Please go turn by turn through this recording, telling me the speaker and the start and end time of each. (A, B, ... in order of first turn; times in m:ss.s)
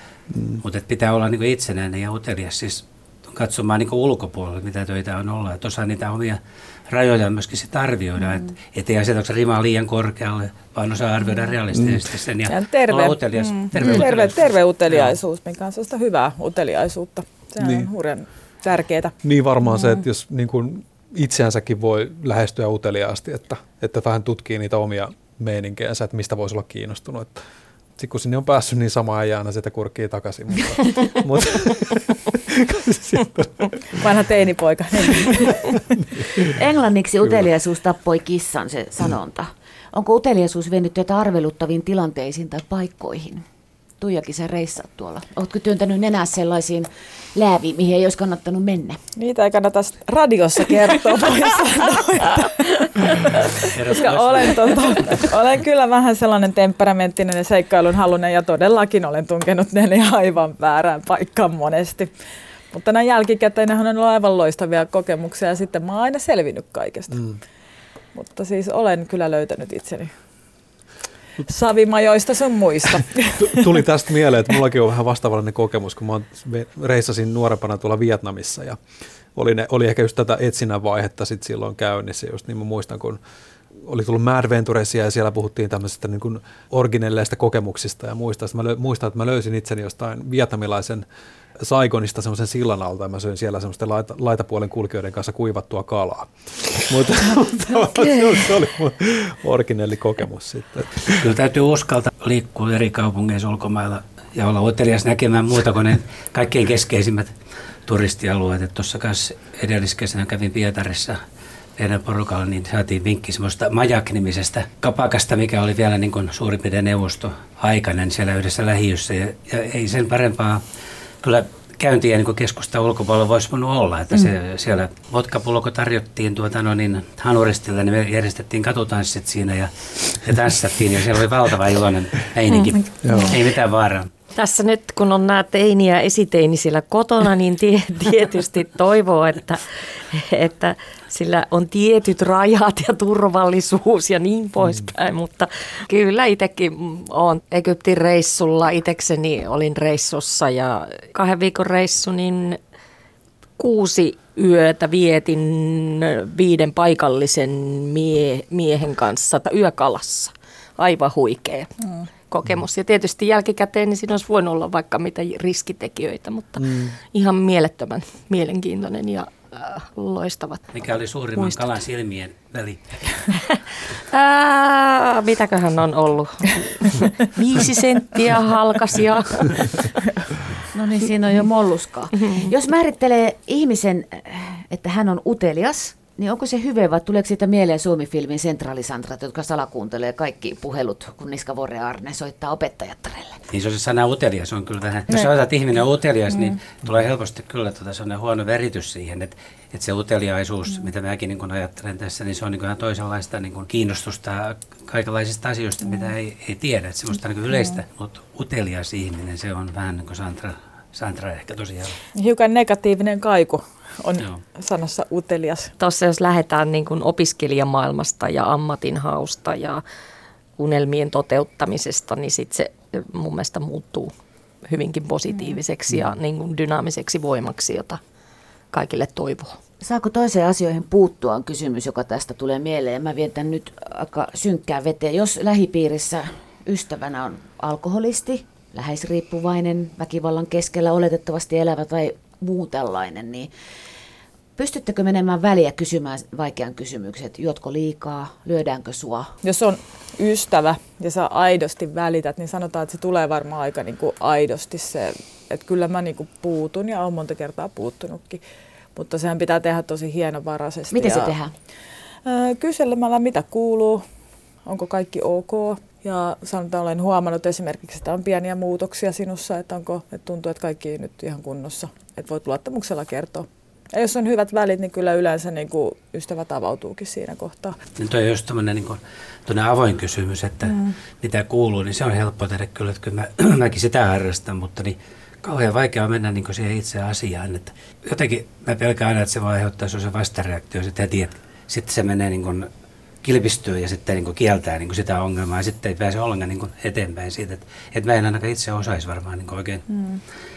0:00.3-0:00.6 A
0:00.6-0:15.2 B
0:11.7-0:12.0 A
0:12.5-0:19.2 C
0:17.6-0:17.9 A
0:19.2-0:27.4 A
0:28.0-0:33.7 A
0:34.0-0:35.6 C
0:36.4-0:43.4 D
0:44.0-0:49.0 D
0:49.2-1:02.1 C
0:53.6-0:55.2 B
1:02.7-1:07.2 C
1:07.1-1:07.4 A
1:08.2-1:10.1 C
1:11.4-1:13.8 C
1:13.4-1:18.8 A
1:19.4-1:23.2 A
1:23.8-1:31.1 A
1:31.6-1:41.2 A
1:41.1-1:47.3 B
1:47.9-1:51.2 B
1:51.8-2:00.6 B
2:01.2-2:14.1 B
2:12.5-2:13.3 E
2:13.0-2:13.4 A
2:14.4-2:32.6 E
2:33.6-2:41.7 E
2:42.3-2:50.6 E
2:46.6-2:46.9 A
2:50.7-2:53.2 B
2:51.4-2:51.7 E
2:53.5-2:59.8 E
3:00.7-3:13.4 D
3:13.5-3:32.0 B
3:32.2-3:35.7 C
3:35.8-3:39.8 E
3:40.6-3:44.1 E
3:44.6-3:48.0 E
3:48.7-3:49.6 E
3:49.8-4:03.5 D
4:04.6-4:09.4 D
4:09.4-4:18.4 C
4:19.0-4:21.3 C
4:20.9-4:21.5 D
4:22.2-4:24.0 C
4:24.7-4:37.8 C
4:38.0-4:52.7 B
4:40.7-4:40.9 C
4:53.2-4:59.9 B
4:59.9-5:00.2 C